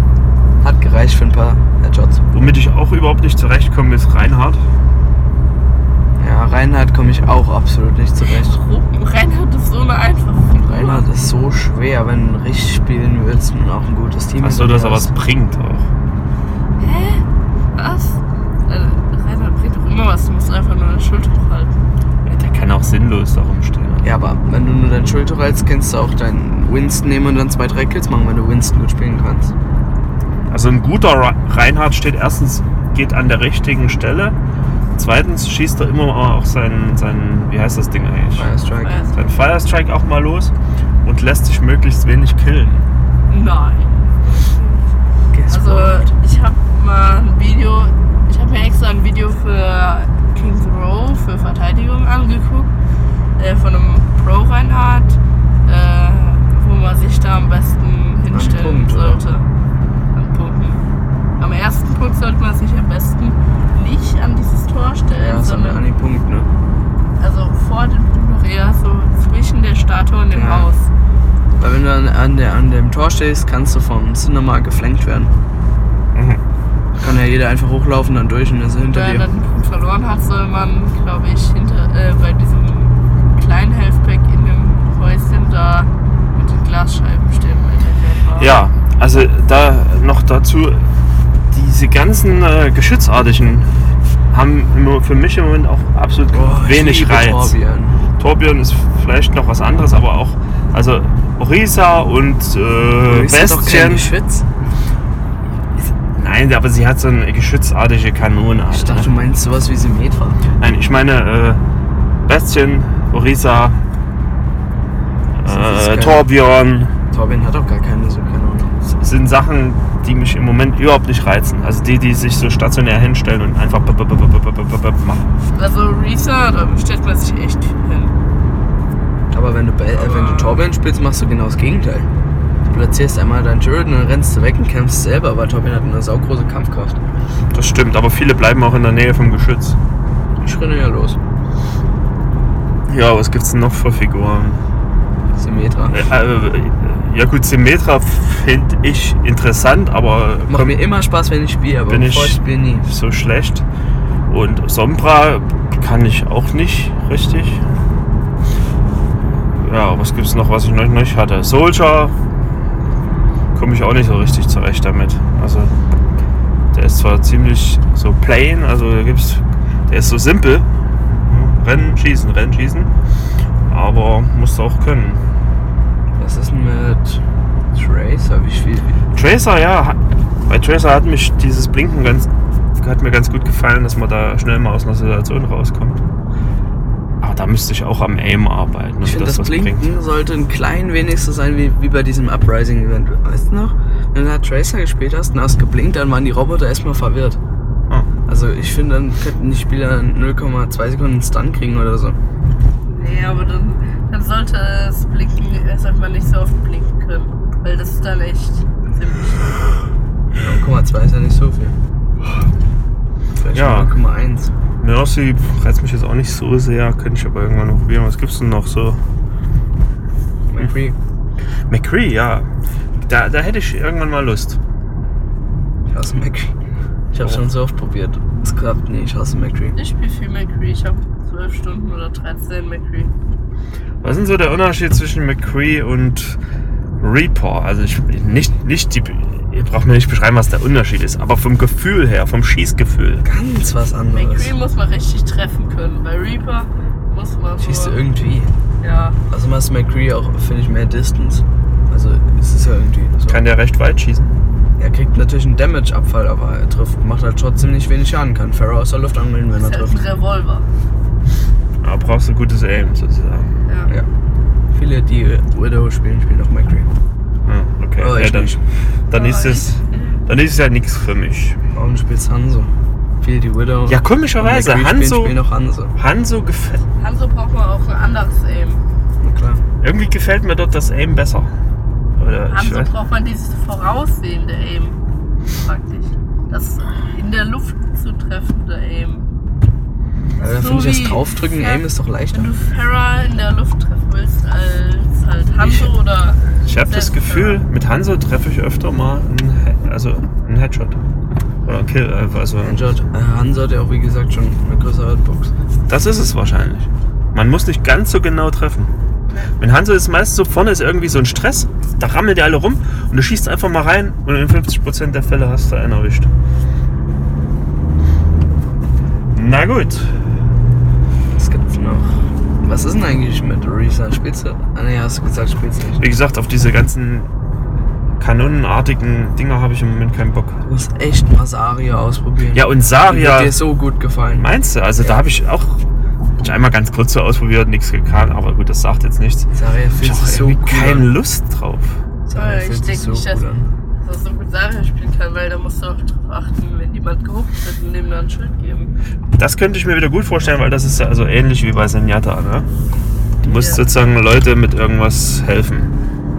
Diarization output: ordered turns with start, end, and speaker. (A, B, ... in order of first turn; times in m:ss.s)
0:00.6-0:02.2 A
0:02.3-0:04.6 B
0:06.2-0:08.6 A
0:08.3-0:11.0 C
0:10.6-0:15.1 A
0:14.4-0:15.9 B
0:16.8-0:21.8 C
0:22.2-0:24.1 B
0:24.0-0:29.5 A
0:30.5-0:34.4 B
0:35.0-0:38.5 B
0:38.4-0:39.0 A
0:38.8-0:39.2 C
0:39.1-0:40.5 B
0:41.0-0:42.9 B
0:43.3-0:44.8 C
0:45.3-0:46.1 A
0:45.5-0:52.7 C
0:53.4-0:59.4 C
0:58.3-0:59.2 A
1:00.1-1:00.8 C
1:01.4-1:05.8 C
1:05.2-1:06.5 A
1:07.2-1:10.9 C
1:10.3-1:10.7 A
1:11.6-1:15.3 A
1:16.1-1:16.4 B
1:17.0-1:19.3 A
1:18.9-1:28.6 C
1:28.4-1:30.8 B
1:31.5-1:33.7 B
1:34.3-1:37.6 B
1:36.3-1:38.0 A
1:38.2-1:44.1 B
1:43.0-1:44.5 A
1:46.1-1:49.1 B
1:48.7-1:50.4 A
1:50.6-1:51.6 B
1:52.3-1:53.8 B
1:55.4-1:56.9 B
1:55.4-1:56.3 A
1:57.1-1:58.7 A
1:58.8-2:05.3 B
2:05.5-2:08.2 C
2:09.3-2:12.1 A
2:09.9-2:10.6 C
2:12.6-2:17.0 A
2:17.5-2:19.8 B
2:20.4-2:21.2 A
2:22.9-2:24.6 B
2:25.3-2:26.0 A
2:25.9-2:30.8 B
2:30.5-2:32.9 A
2:31.9-2:33.6 B
2:34.3-2:37.6 B
2:39.6-2:42.1 B
2:43.5-2:45.7 B
2:46.7-2:50.6 B
2:51.2-2:52.9 B
2:53.7-2:55.2 B
2:56.2-2:59.0 A
2:59.1-3:06.0 B
3:07.2-3:09.9 B
3:09.0-3:17.4 A
3:18.3-3:22.2 A
3:22.8-3:29.6 C
3:30.4-3:31.8 A
3:33.4-3:34.5 A
3:33.5-3:34.0 B
3:34.8-3:39.0 B
3:40.5-3:41.0 A
3:41.7-3:42.5 B
3:43.0-3:44.6 B
3:45.9-3:46.5 A
3:47.1-3:49.8 A
3:49.7-3:53.1 C
3:54.0-3:56.4 B
3:57.0-4:03.2 B
4:03.2-4:04.5 A
4:04.1-4:08.0 C
4:07.6-4:08.5 A
4:08.8-4:09.2 C
4:09.3-4:13.4 A
4:13.3-4:14.3 B
4:14.8-4:20.1 A
4:19.6-4:20.7 C
4:21.8-4:23.5 B
4:24.7-4:26.9 A
4:27.4-4:28.6 B
4:28.0-4:28.6 A
4:29.1-4:31.6 B
4:29.1-4:30.2 C
4:31.7-4:35.9 A
4:33.9-4:35.4 B
4:35.9-4:36.8 B
4:37.0-4:38.8 C
4:39.2-4:39.6 A
4:39.8-4:41.5 B
4:42.2-4:42.9 B
4:42.5-4:45.0 C
4:45.5-4:49.3 C
4:50.4-4:57.6 C
4:50.4-4:52.5 A
4:55.6-4:55.9 A
4:56.6-5:01.0 B
5:01.6-5:02.9 B
5:02.6-5:05.5 A
5:05.9-5:08.9 B
5:09.6-5:16.3 B
5:19.3-5:20.1 B
5:21.3-5:26.1 A
5:26.0-5:27.3 B
5:28.2-5:30.6 B
5:30.6-5:34.5 A
5:32.5-5:33.6 B
5:34.3-5:35.8 B
5:35.0-5:35.3 A
5:36.4-5:42.0 B
5:39.5-5:41.1 A
5:42.3-5:43.7 A
5:42.3-5:43.4 C
5:44.0-5:48.9 C
5:49.4-5:52.7 B
5:53.4-5:55.9 B
5:53.4-5:53.8 C